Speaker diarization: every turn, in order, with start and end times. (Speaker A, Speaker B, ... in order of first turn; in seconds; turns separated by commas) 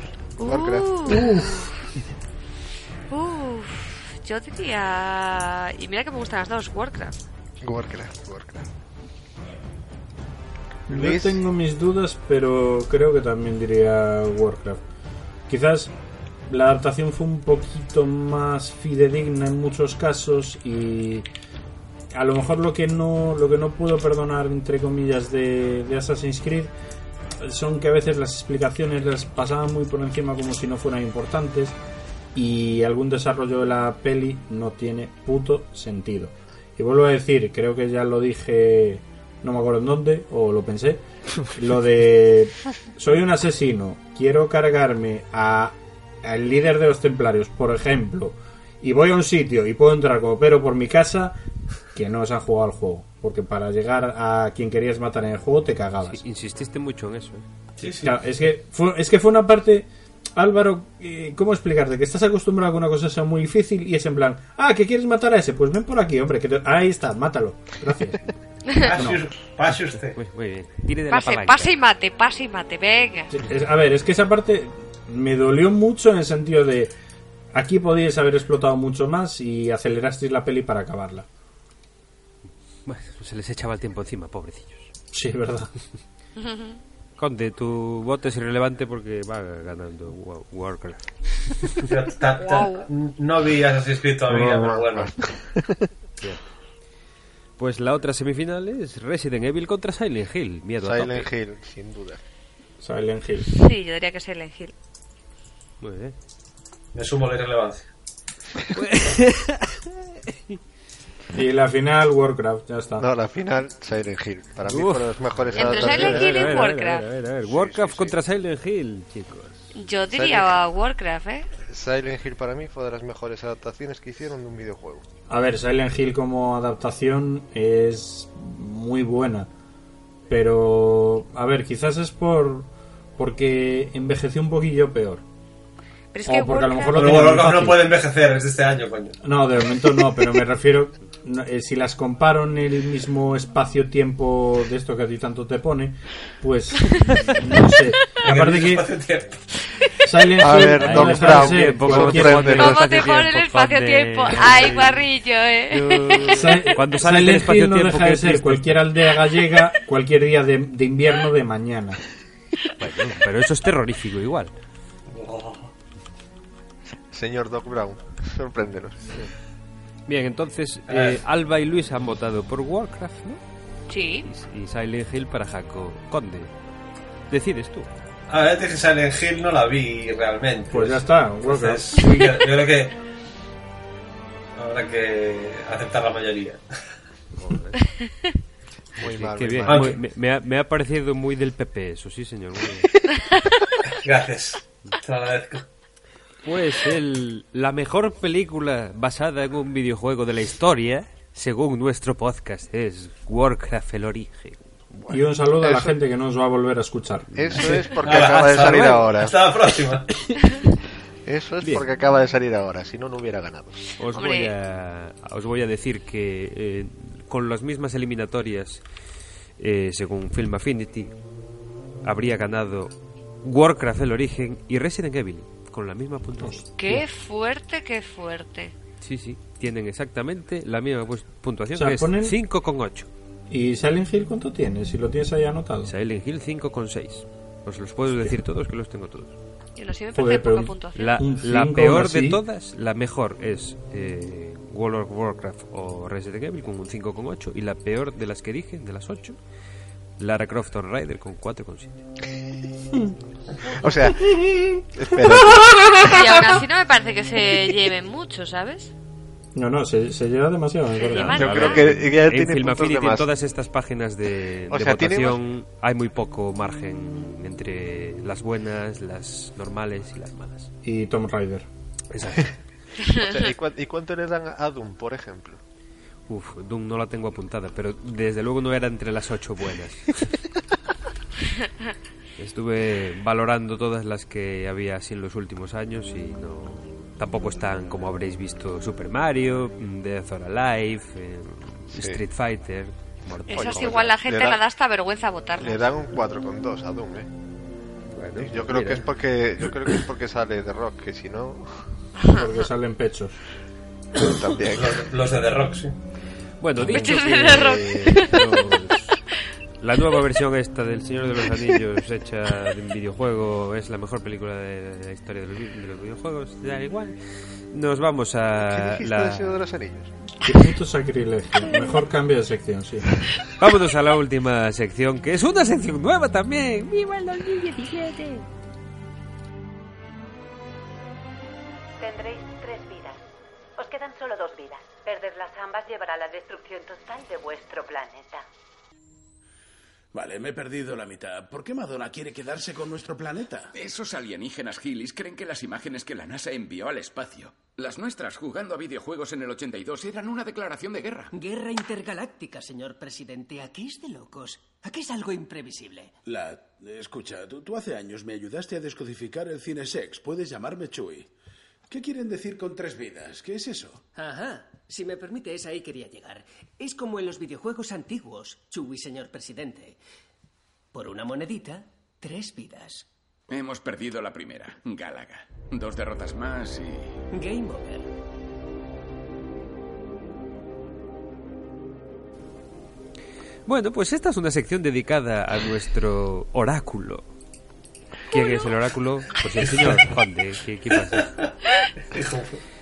Speaker A: 0.4-1.3, Speaker B: 0.4-1.2, Speaker C: 1.1-1.7, Speaker A: 3.1-7.2, Speaker B: 7.6-8.7, Speaker B: 10.9-11.3, Speaker C: 10.9-14.8, Speaker C: 15.5-15.9, Speaker C: 16.5-21.3, Speaker C: 22.1-26.7, Speaker C: 27.4-31.8, Speaker C: 32.3-51.4, Speaker C: 51.9-56.2, Speaker D: 56.1-57.4, Speaker E: 57.8-58.1, Speaker C: 58.0-68.2, Speaker E: 68.8-70.2, Speaker C: 68.9-69.2, Speaker D: 70.2-71.7, Speaker A: 71.1-73.3, Speaker C: 73.3-76.9, Speaker C: 77.5-81.3, Speaker D: 82.9-84.9, Speaker C: 85.1-85.7, Speaker A: 86.4-86.8, Speaker D: 87.2-91.7, Speaker E: 91.8-95.1, Speaker A: 92.4-92.8, Speaker B: 94.3-95.9, Speaker D: 97.6-101.3, Speaker B: 100.8-102.2, Speaker C: 102.8-103.5, Speaker A: 103.5-104.7, Speaker D: 105.8-106.1, Speaker E: 106.9-107.9, Speaker D: 108.7-109.8, Speaker C: 111.3-113.0, Speaker B: 113.0-116.4, Speaker D: 114.6-119.6, Speaker A: 115.5-117.0, Speaker B: 117.6-118.1, Speaker A: 119.7-121.5, Speaker B: 120.1-120.6, Speaker B: 121.7-125.0, Speaker C: 125.3-129.5, Speaker C: 130.3-135.2, Speaker A: 136.1-137.3, Speaker C: 136.3-137.8, Speaker E: 136.9-139.2, Speaker C: 139.2-148.9, Speaker E: 148.2-149.4, Speaker C: 150.1-152.6, Speaker B: 150.4-153.1, Speaker D: 150.8-155.1, Speaker A: 152.6-156.7, Speaker D: 155.7-158.8, Speaker C: 156.3-162.0, Speaker D: 162.8-164.5, Speaker E: 165.1-165.7, Speaker B: 167.1-169.0, Speaker D: 170.1-173.4, Speaker E: 170.9-171.2, Speaker A: 173.9-174.3, Speaker D: 174.2-176.5, Speaker D: 177.3-177.9, Speaker E: 178.3-182.9, Speaker C: 180.7-181.9, Speaker D: 181.9-182.5, Speaker E: 184.6-186.6, Speaker D: 187.3-187.9, Speaker B: 189.0-189.9, Speaker D: 189.0-193.0, Speaker E: 189.7-190.0, Speaker E: 193.9-195.6, Speaker D: 196.4-204.8, Speaker B: 205.0-205.9, Speaker C: 205.1-207.4, Speaker B: 207.3-209.4, Speaker D: 207.4-209.1, Speaker E: 208.0-210.1, Speaker B: 211.3-213.9, Speaker D: 214.0-218.8, Speaker A: 214.1-214.5, Speaker D: 219.6-221.1, Speaker D: 222.0-222.9, Speaker D: 223.4-226.6, Speaker C: 226.4-227.0, Speaker A: 226.8-228.7, Speaker D: 229.0-233.1, Speaker C: 231.7-232.4, Speaker C: 233.5-235.9, Speaker D: 235.8-239.3, Speaker A: 239.8-241.1, Speaker C: 240.1-242.4, Speaker D: 240.9-249.4, Speaker D: 250.2-252.1, Speaker B: 253.8-256.4, Speaker A: 256.0-258.9, Speaker C: 259.5-261.6, Speaker A: 261.0-261.9, Speaker D: 261.1-270.7, Speaker B: 261.4-263.3, Speaker B: 264.7-265.4, Speaker C: 270.8-271.7, Speaker D: 272.1-272.6, Speaker B: 273.1-275.6, Speaker A: 273.2-273.4, Speaker D: 276.3-280.3, Speaker D: 282.4-294.2, Speaker B: 291.9-292.2, Speaker B: 293.4-294.6, Speaker A: 293.5-295.9, Speaker B: 295.6-297.3, Speaker D: 298.1-299.1, Speaker B: 298.4-301.8, Speaker C: 302.3-303.4, Speaker B: 304.2-305.0, Speaker E: 304.7-305.9, Speaker D: 306.6-309.1, Speaker C: 306.8-307.7, Speaker A: 306.9-308.3, Speaker D: 309.8-317.1, Speaker D: 317.7-319.5, Speaker B: 318.6-320.1, Speaker C: 320.4-323.2, Speaker D: 323.6-328.1, Speaker F: 332.0-333.2, Speaker F: 333.8-338.4, Speaker G: 340.1-343.7, Speaker H: 343.7-351.3, Speaker I: 351.3-356.1, Speaker G: 356.2-361.3, Speaker G: 361.9-364.1, Speaker I: 364.1-369.9, Speaker I: 370.9-373.1, Speaker H: 373.5-377.1, Speaker I: 377.3-378.1, Speaker D: 383.6-387.2, Speaker D: 388.3-391.3, Speaker E: 389.6-390.1, Speaker E: 392.1-392.6